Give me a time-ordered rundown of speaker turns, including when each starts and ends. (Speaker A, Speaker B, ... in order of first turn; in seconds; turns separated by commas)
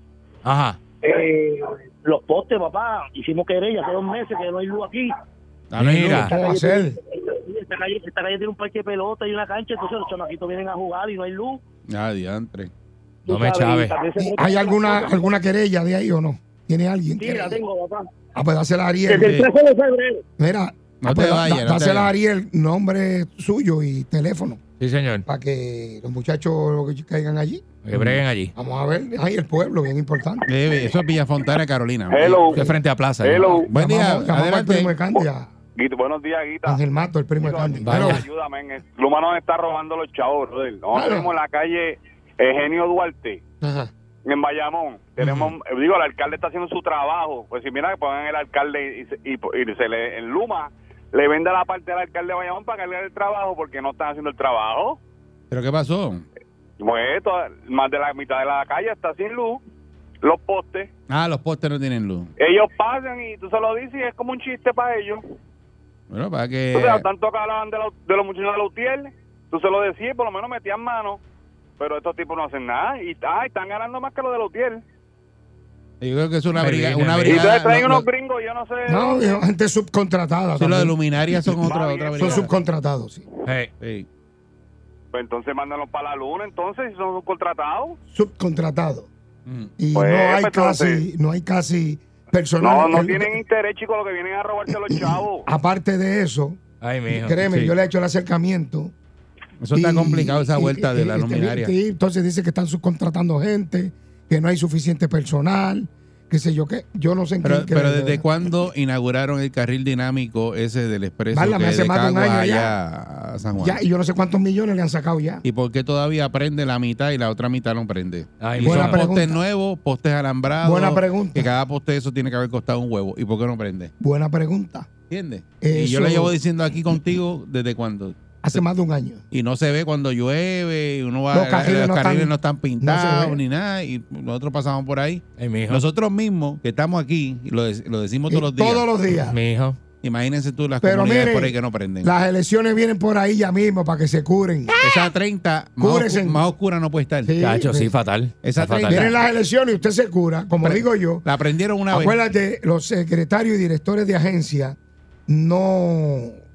Speaker A: 0.4-0.8, Speaker B: 1.0-5.1, Speaker C: 5.7-6.3, Speaker A: 5.8-6.3, Speaker B: 6.3-11.6, Speaker D: 6.3-7.0, Speaker C: 11.9-12.7, Speaker B: 13.2-15.3, Speaker A: 13.3-13.9, Speaker D: 14.2-17.6, Speaker B: 17.2-18.0, Speaker D: 18.4-19.4, Speaker B: 19.1-20.2, Speaker D: 20.4-24.6, Speaker C: 21.0-22.1, Speaker A: 24.8-25.2, Speaker D: 25.2-27.6, Speaker A: 27.8-28.5, Speaker C: 27.9-28.2, Speaker D: 28.6-30.5, Speaker C: 30.5-32.6, Speaker E: 32.1-33.7, Speaker A: 32.5-33.5, Speaker C: 33.5-35.0, Speaker D: 33.7-35.5, Speaker E: 35.8-36.8, Speaker D: 36.6-38.2, Speaker E: 37.4-43.4, Speaker A: 37.9-38.2, Speaker D: 40.9-41.3, Speaker D: 43.6-43.9, Speaker E: 44.2-55.0, Speaker C: 45.2-45.5, Speaker C: 55.5-56.2, Speaker E: 56.8-59.6, Speaker E: 60.2-60.9, Speaker C: 61.1-62.3, Speaker E: 62.4-65.2, Speaker C: 66.1-67.1, Speaker E: 66.7-71.2, Speaker E: 71.8-74.8, Speaker C: 76.0-78.1, Speaker A: 76.6-77.5, Speaker E: 77.2-79.4, Speaker D: 78.9-81.5, Speaker C: 80.5-82.5, Speaker E: 81.6-82.5, Speaker D: 82.2-83.2, Speaker A: 83.5-83.7, Speaker C: 83.8-84.0, Speaker E: 85.1-88.0, Speaker D: 88.1-89.1, Speaker C: 89.5-89.7, Speaker D: 89.8-93.4, Speaker E: 89.9-91.0, Speaker E: 92.6-95.5, Speaker D: 94.9-98.9, Speaker A: 96.8-97.4, Speaker C: 97.5-97.7, Speaker C: 99.6-101.7, Speaker D: 99.7-108.3, Speaker C: 107.4-113.8, Speaker D: 111.3-112.8, Speaker D: 113.6-115.4, Speaker C: 115.4-123.9, Speaker A: 118.4-119.1, Speaker D: 118.6-119.4, Speaker D: 120.6-121.5, Speaker D: 124.0-124.9, Speaker C: 125.1-128.6, Speaker D: 125.6-126.4, Speaker D: 128.4-129.2, Speaker C: 129.3-138.9, Speaker D: 131.3-133.4, Speaker A: 135.4-135.8, Speaker D: 138.3-139.4, Speaker A: 139.3-139.8, Speaker C: 140.0-142.1, Speaker D: 140.8-145.1, Speaker C: 144.8-147.3, Speaker D: 145.8-146.4, Speaker D: 147.2-147.9, Speaker A: 147.4-149.2, Speaker C: 148.4-149.1, Speaker D: 148.7-151.2, Speaker C: 150.6-152.2, Speaker D: 151.9-156.4